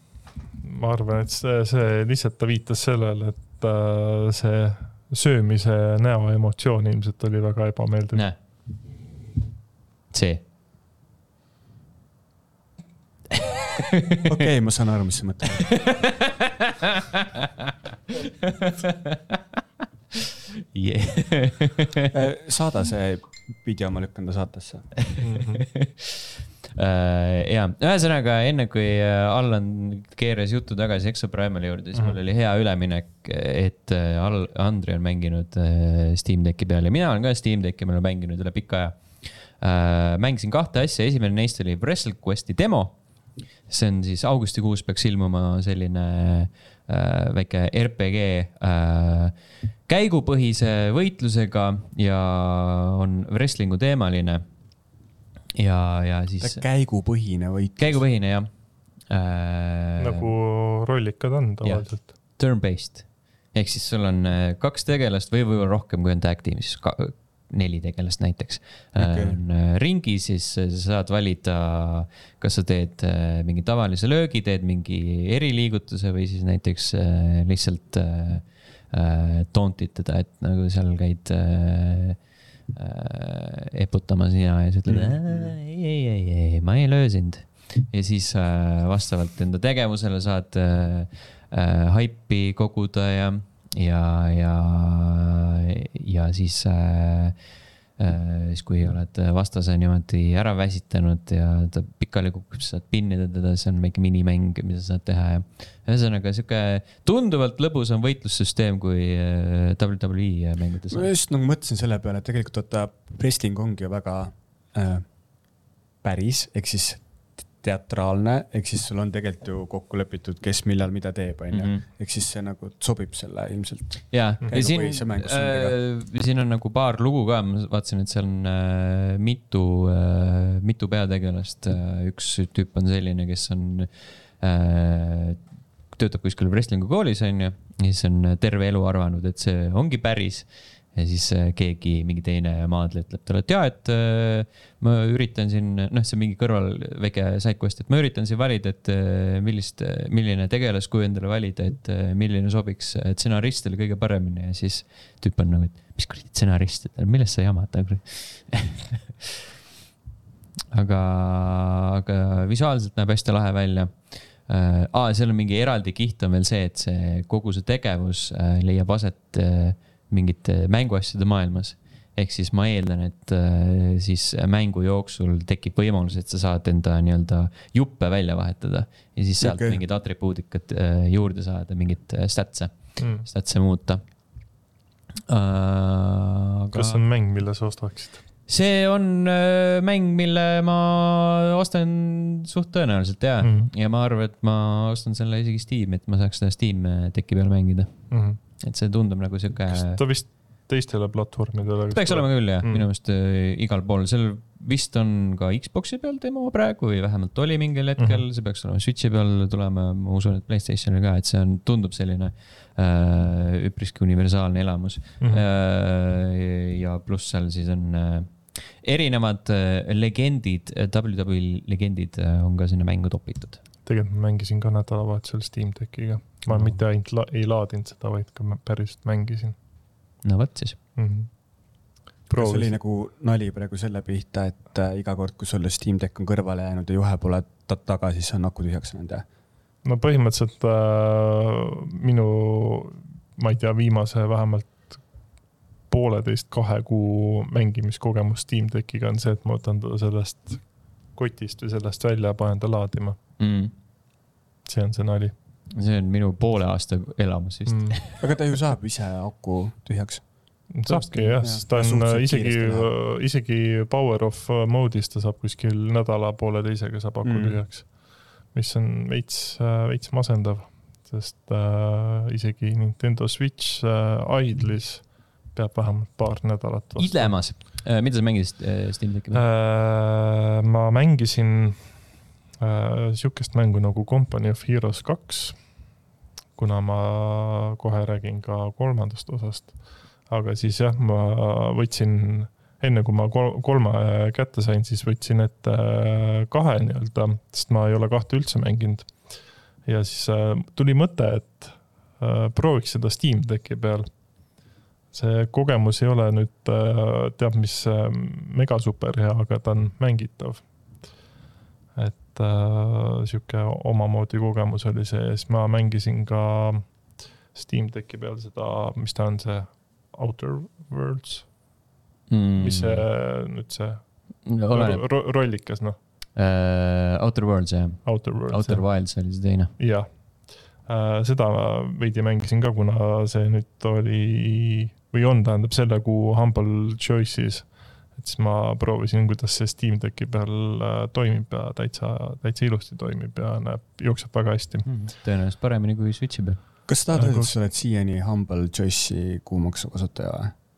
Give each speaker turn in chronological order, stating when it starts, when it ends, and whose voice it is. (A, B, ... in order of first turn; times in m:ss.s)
0:00.6-0:08.3 A
0:10.1-0:10.4 B
0:13.3-0:14.4 B
0:14.2-0:15.8 C
0:15.7-0:19.4 B
0:20.7-0:22.1 B
0:22.1-0:24.9 C
0:25.0-0:39.0 B
0:25.2-0:25.6 A
0:39.6-0:43.0 B
0:43.7-0:54.4 B
0:55.6-0:56.6 B
0:56.4-0:58.0 C
0:57.8-0:58.5 B
0:59.1-1:00.3 B
1:00.0-1:02.1 A
1:01.6-1:22.2 B
1:09.0-1:09.4 C
1:22.7-1:37.4 B
1:24.9-1:25.5 C
1:38.0-1:51.1 B
1:50.9-1:55.1 C
1:56.0-1:57.0 C
1:57.6-2:05.8 C
2:01.5-2:01.8 B
2:04.1-2:15.4 B
2:15.9-2:39.1 B
2:40.7-3:04.0 B
2:59.4-2:59.8 C
3:03.0-3:03.3 A
3:05.3-3:07.0 B
3:06.7-3:08.2 A
3:08.5-3:18.0 B
3:13.4-3:13.7 A
3:18.1-3:18.4 A
3:18.6-3:20.0 B
3:19.7-3:22.9 A
3:21.9-3:43.6 B
3:28.0-3:28.2 A
3:43.8-3:49.6 A
3:46.5-3:46.8 B
3:50.2-3:50.8 B
3:51.0-3:51.3 A
3:52.3-3:52.7 A
3:52.4-3:59.2 C
3:59.8-4:05.0 A
4:05.9-4:10.6 A
4:11.2-4:13.2 A
4:13.4-4:13.7 B
4:14.7-4:15.3 A
4:15.8-4:18.2 B
4:17.7-4:18.0 A
4:18.2-4:20.2 C
4:20.7-4:27.9 A
4:20.9-4:22.9 C
4:27.2-4:27.6 C
4:28.5-4:37.4 A
4:37.0-4:39.4 B
4:39.3-4:41.8 A
4:42.6-4:45.6 A
4:46.6-4:49.7 A
4:50.3-4:59.1 A
4:59.9-5:04.1 A
5:05.1-5:10.6 A
5:12.0-5:16.8 A
5:17.5-5:21.5 A
5:22.3-5:23.0 B
5:22.6-5:24.0 A
5:24.5-5:25.0 B
5:24.7-5:26.0 A
5:26.4-5:29.7 B
5:28.0-5:28.8 A
5:29.8-5:30.1 A
5:30.9-5:37.6 A
5:38.2-5:44.9 A
5:44.8-5:46.6 B
5:46.9-5:50.5 C
5:47.1-5:47.5 A